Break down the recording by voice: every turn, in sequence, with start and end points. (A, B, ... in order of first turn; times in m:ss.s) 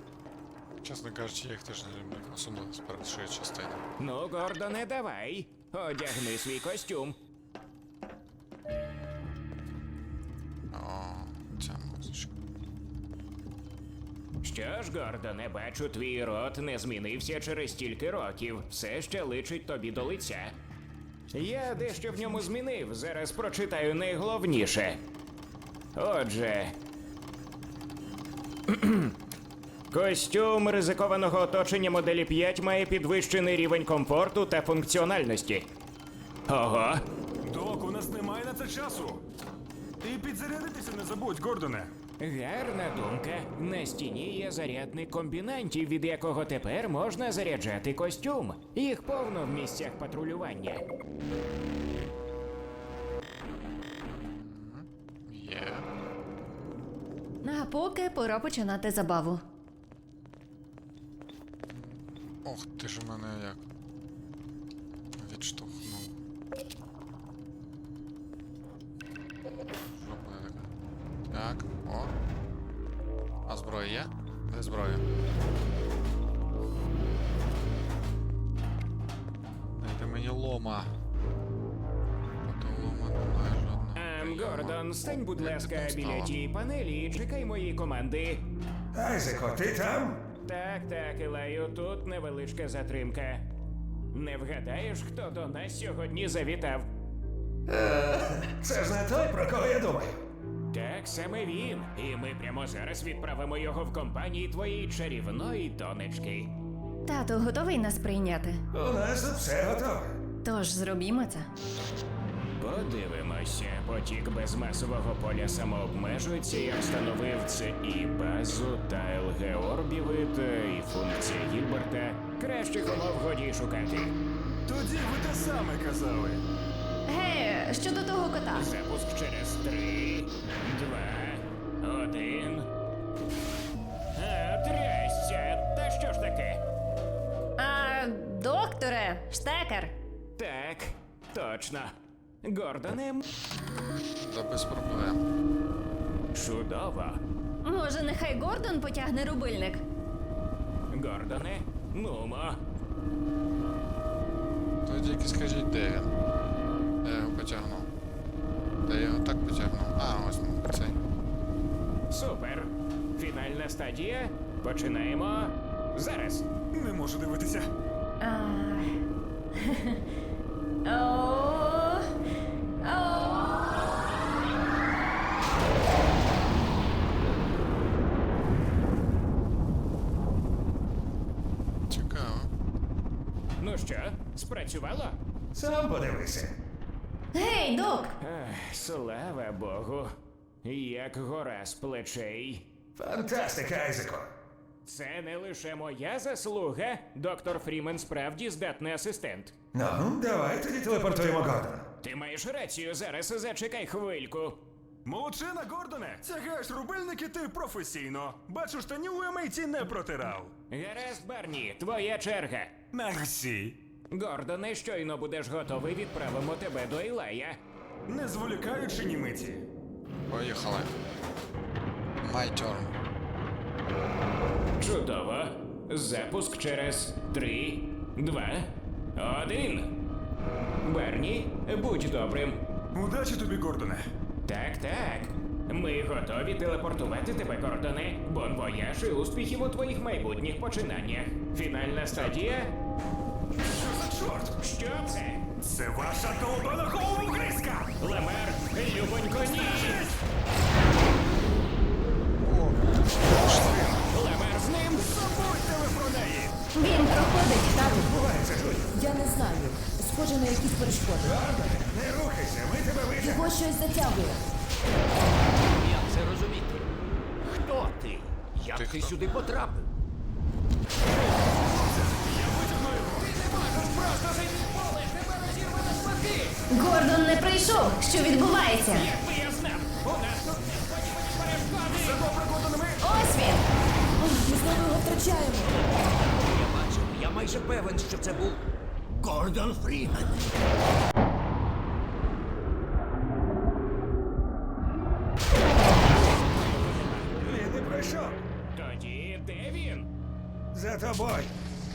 0:00.8-0:03.8 A
0:04.0-0:07.2 B
0:10.7-0:12.3 A
0:14.4-0:20.5 B
0:21.3-0:25.0 B
0:26.0-0:26.7 B
0:28.7-0:29.1 B
0:29.9-0:35.7 B
0:36.5-0:37.0 B
0:37.4-0:39.2 C
0:40.0-0:41.9 C
0:42.2-0:50.8 B
0:54.0-0:55.9 A
0:57.4-0:59.4 D
1:01.7-1:03.6 A
1:05.1-1:06.1 A
1:09.9-1:10.7 A
1:11.3-1:12.1 A
1:13.5-1:15.0 A
1:19.7-1:20.9 A
1:22.4-1:26.3 A
1:24.0-1:28.4 B
1:28.9-1:30.2 E
1:30.4-1:33.5 B
1:34.1-1:36.9 B
1:37.7-1:40.2 E
1:40.7-1:46.5 B
1:47.0-1:48.6 D
1:48.7-1:50.2 E
1:50.4-1:51.5 D
1:52.6-2:04.2 B
2:04.6-2:06.4 C
2:07.1-2:08.7 D
2:08.5-2:12.7 B
2:14.2-2:16.6 B
2:17.6-2:19.9 D
2:20.4-2:23.2 B
2:23.6-2:25.2 A
2:26.3-2:27.2 B
2:27.6-2:29.8 D
2:30.9-2:32.6 B
2:34.8-2:36.1 A
2:37.0-2:37.9 A
2:38.8-2:41.0 A
2:42.1-2:46.4 B
2:46.7-2:47.7 C
2:48.2-2:49.0 D
2:49.5-2:50.0 D
2:50.8-2:52.1 D
2:52.8-2:54.0 D
3:01.9-3:02.5 A
3:03.6-3:05.2 B
3:05.5-3:06.5 E
3:07.3-3:08.1 D
3:08.2-3:10.1 B
3:10.6-3:12.7 B
3:13.0-3:14.3 E
3:14.8-3:19.5 B
3:19.7-3:21.8 E
3:22.0-3:24.6 B
3:25.0-3:30.5 C
3:30.7-3:32.7 B
3:32.9-3:33.8 C
3:34.1-3:37.6 B
3:38.1-3:39.6 C
3:40.3-3:40.9 A
3:42.2-3:42.9 A
3:44.8-3:49.9 B
3:50.8-3:52.6 B
3:52.9-3:54.0 C
3:54.4-4:02.7 B
4:03.5-4:04.6 C
4:04.6-4:05.4 B
4:05.6-4:07.9 C
4:08.0-4:10.0 B
4:09.6-4:10.2 C
4:12.4-4:13.9 A
4:13.3-4:14.0 C
4:14.1-4:15.1 B
4:15.0-4:16.5 C
4:16.7-4:18.1 D
4:18.0-4:18.9 E
4:18.9-4:21.4 F
4:21.2-4:23.5 E
4:23.2-4:24.4 F
4:25.6-4:29.9 G
4:28.7-4:29.2 A
4:31.1-4:33.3 C
4:33.2-4:36.6 B
4:36.7-4:39.1 D
4:38.9-4:42.2 B
4:41.9-4:43.0 C
4:43.0-4:43.7 D
4:44.3-4:45.8 F
4:45.7-4:50.5 G
4:55.9-4:57.4 B
4:57.4-4:58.3 E
4:58.7-5:00.1 B
5:00.7-5:01.5 E